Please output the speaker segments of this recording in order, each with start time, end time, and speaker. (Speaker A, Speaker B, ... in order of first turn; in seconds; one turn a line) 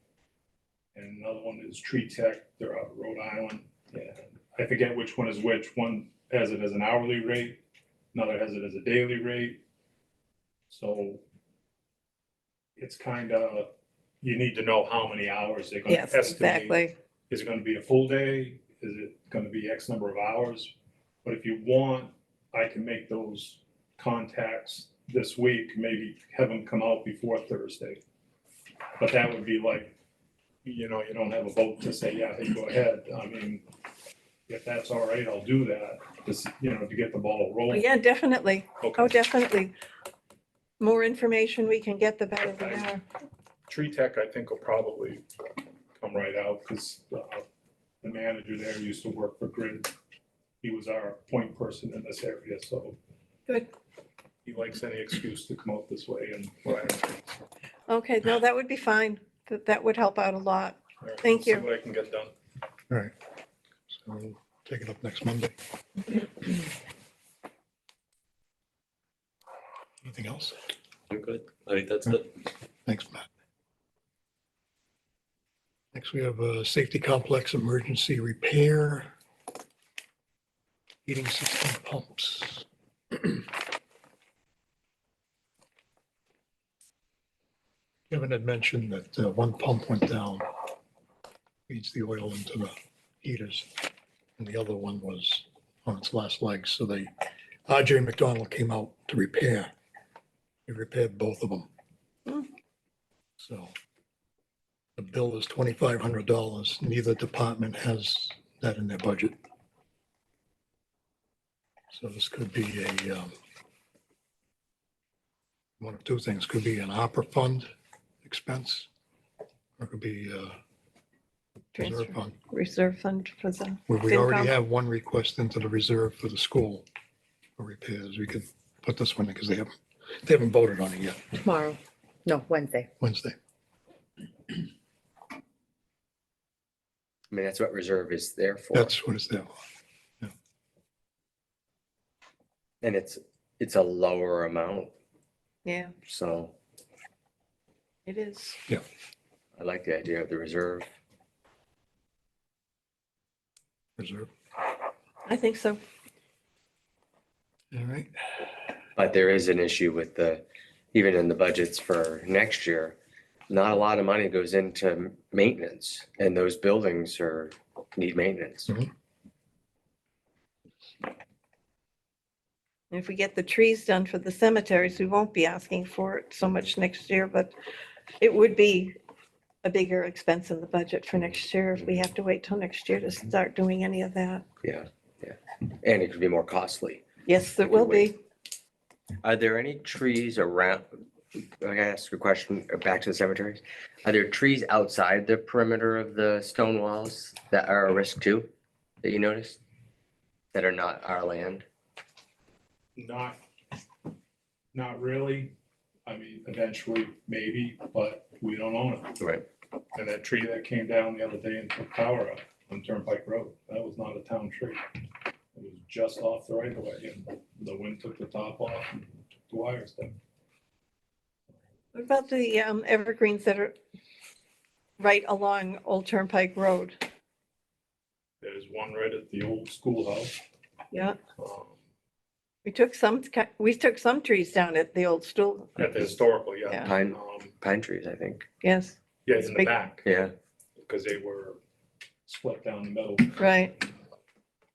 Speaker A: 0.9-7.6
Speaker A: 8.1-9.6
Speaker A: 10.7-11.2
Speaker A: 12.8-13.7
Speaker A: 14.2-28.0
Speaker B: 15.9-16.9
Speaker A: 29.0-29.9
Speaker A: 30.6-33.7
Speaker A: 34.5-37.9
Speaker B: 37.7-39.7
Speaker A: 38.8-39.2
Speaker B: 40.8-43.0
Speaker A: 42.5-42.9
Speaker A: 43.7-45.2
Speaker A: 46.0-47.5
Speaker A: 48.0-49.9
Speaker A: 50.6-53.0
Speaker A: 54.5-57.2
Speaker B: 57.9-61.7
Speaker A: 61.0-62.3
Speaker C: 63.9-65.5
Speaker C: 70.0-70.6
Speaker D: 71.1-72.2
Speaker C: 72.9-73.3
Speaker C: 75.9-79.1
Speaker C: 81.0-83.4
Speaker C: 88.1-90.5
Speaker C: 91.7-93.8
Speaker C: 94.4-97.1
Speaker C: 97.7-99.7
Speaker C: 100.7-101.7
Speaker C: 103.4-103.7
Speaker C: 105.0-109.3
Speaker C: 111.9-113.3
Speaker C: 115.8-117.7
Speaker C: 118.2-118.9
Speaker C: 119.8-120.5
Speaker B: 121.8-124.5
Speaker C: 121.8-122.3
Speaker C: 123.9-126.8
Speaker C: 127.6-131.4
Speaker B: 131.4-132.9
Speaker C: 133.0-133.4
Speaker D: 137.3-139.0
Speaker C: 138.7-139.5
Speaker D: 142.8-144.9
Speaker B: 145.7-145.9
Speaker D: 146.0-146.6
Speaker B: 148.1-148.6
Speaker D: 149.6-150.9
Speaker C: 154.0-154.3
Speaker B: 155.3-155.8
Speaker C: 157.7-158.1
Speaker D: 159.0-163.0
Speaker D: 163.5-168.7
Speaker B: 172.9-177.5
Speaker B: 178.2-178.9
Speaker B: 179.6-184.5
Speaker D: 181.8-182.1
Speaker D: 184.6-187.1
Speaker B: 187.3-188.2
Speaker D: 187.6-188.1
Speaker D: 189.2-190.9
Speaker D: 191.6-198.5
Speaker D: 199.0-199.6
Speaker D: 200.5-201.7
Speaker A: 203.0-203.4
Speaker A: 204.7-205.5
Speaker A: 206.1-209.2
Speaker D: 209.2-209.4
Speaker A: 209.9-214.8
Speaker A: 215.6-220.2
Speaker B: 221.9-223.8
Speaker B: 225.0-227.0
Speaker A: 228.4-230.4
Speaker B: 230.9-231.2
Speaker A: 231.4-231.8
Speaker B: 232.7-235.8
Speaker A: 235.8-237.5
Speaker D: 236.8-238.5
Speaker B: 238.6-239.7
Speaker A: 239.2-240.1
Speaker D: 240.0-240.3
Speaker A: 240.8-241.6
Speaker A: 242.3-243.8
Speaker B: 243.4-243.7